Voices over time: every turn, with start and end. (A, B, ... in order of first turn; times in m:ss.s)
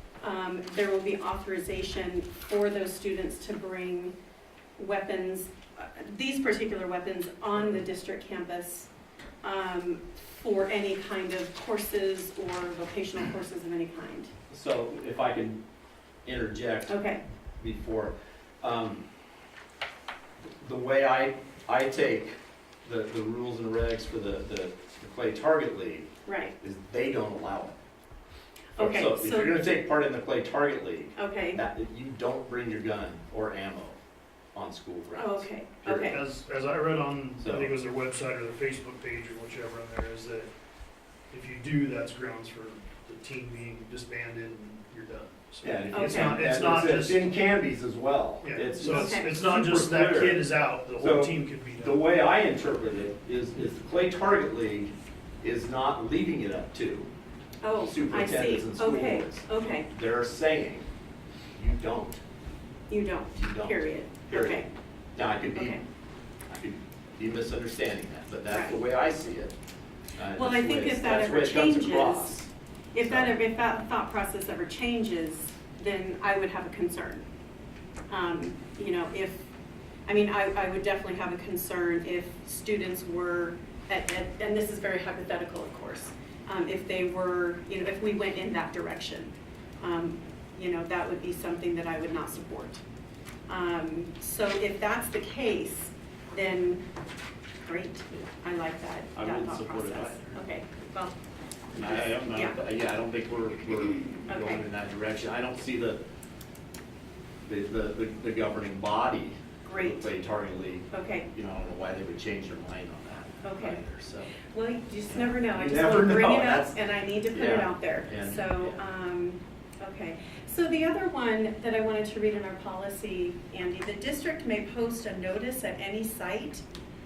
0:00.2-0:04.2 A
0:04.8-0:08.9 A
0:09.4-0:14.3 A
0:14.5-0:15.6 B
0:16.2-0:17.0 B
0:16.9-0:17.2 A
0:17.6-0:19.0 B
0:20.4-0:26.1 B
0:26.3-0:26.6 A
0:26.6-0:27.8 B
0:28.8-0:29.8 A
0:28.8-0:34.0 B
0:31.2-0:31.6 A
0:34.5-0:36.2 B
0:35.2-0:36.2 A
0:36.1-0:40.5 C
0:37.4-0:37.7 B
0:41.3-0:47.3 C
0:45.6-0:57.1 B
0:45.9-0:46.4 A
0:48.4-0:52.0 C
0:48.8-0:49.4 A
0:57.6-0:59.9 A
0:57.9-1:00.9 B
1:01.6-1:02.2 B
1:02.9-1:04.7 A
1:03.3-1:05.8 B
1:05.5-1:05.8 A
1:06.5-1:09.6 B
1:08.5-1:08.8 A
1:10.2-1:12.5 B
1:10.4-1:12.3 A
1:12.9-1:17.3 A
1:13.0-1:13.4 B
1:18.1-1:19.5 A
1:20.1-1:32.8 A
1:33.5-1:36.8 A
1:37.6-1:41.2 A
1:39.2-1:40.4 B
1:41.7-1:42.6 A
1:41.8-1:46.0 B
1:44.3-1:44.6 A
1:47.5-1:54.4 B
1:49.6-1:50.1 A
1:50.9-1:51.3 A
1:53.4-1:53.8 A
1:54.4-2:06.6 A
1:55.1-1:56.8 B
1:57.3-1:58.8 B